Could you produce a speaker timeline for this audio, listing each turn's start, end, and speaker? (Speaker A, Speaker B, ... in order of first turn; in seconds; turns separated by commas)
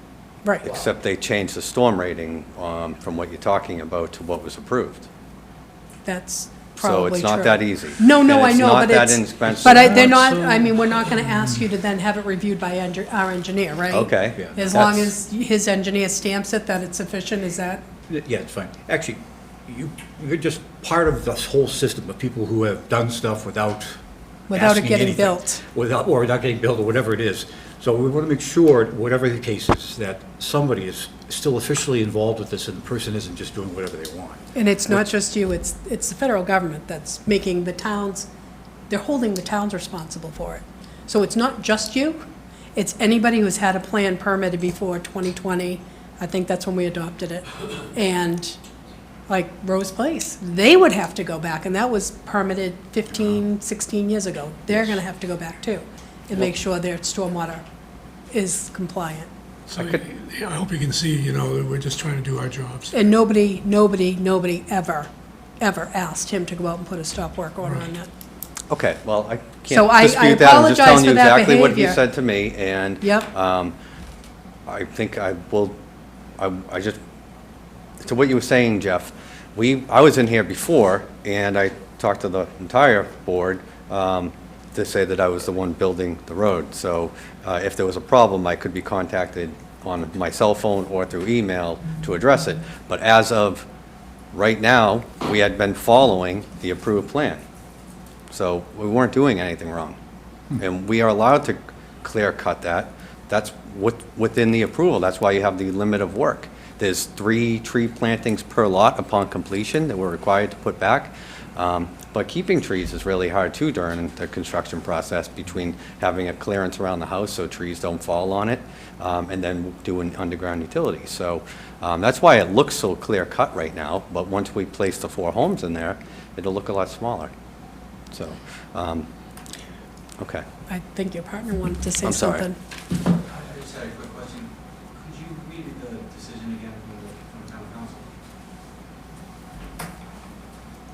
Speaker A: 0.4-0.8, Speaker B: 0.7-5.1, Speaker A: 6.0-17.9, Speaker B: 6.8-10.2, Speaker C: 9.4-11.5, Speaker B: 13.9-15.1, Speaker C: 14.4-14.8, Speaker C: 18.1-24.0, Speaker A: 24.5-25.6, Speaker C: 24.5-35.1, Speaker A: 34.5-38.3, Speaker A: 38.9-42.2, Speaker A: 42.8-48.6, Speaker A: 49.3-57.6, Speaker A: 58.3-59.3, Speaker D: 59.7-63.0, Speaker A: 62.9-65.1, Speaker A: 65.6-68.1, Speaker B: 68.7-73.8, Speaker A: 69.7-72.0, Speaker A: 73.0-73.3, Speaker B: 74.7-75.8, Speaker B: 76.4-77.0, Speaker B: 78.0-93.7, Speaker B: 94.3-97.4, Speaker B: 98.3-100.0, Speaker B: 100.6-127.3, Speaker B: 128.1-129.1, Speaker B: 130.2-130.4, Speaker A: 130.7-132.6, Speaker B: 132.0-132.5, Speaker E: 133.2-138.1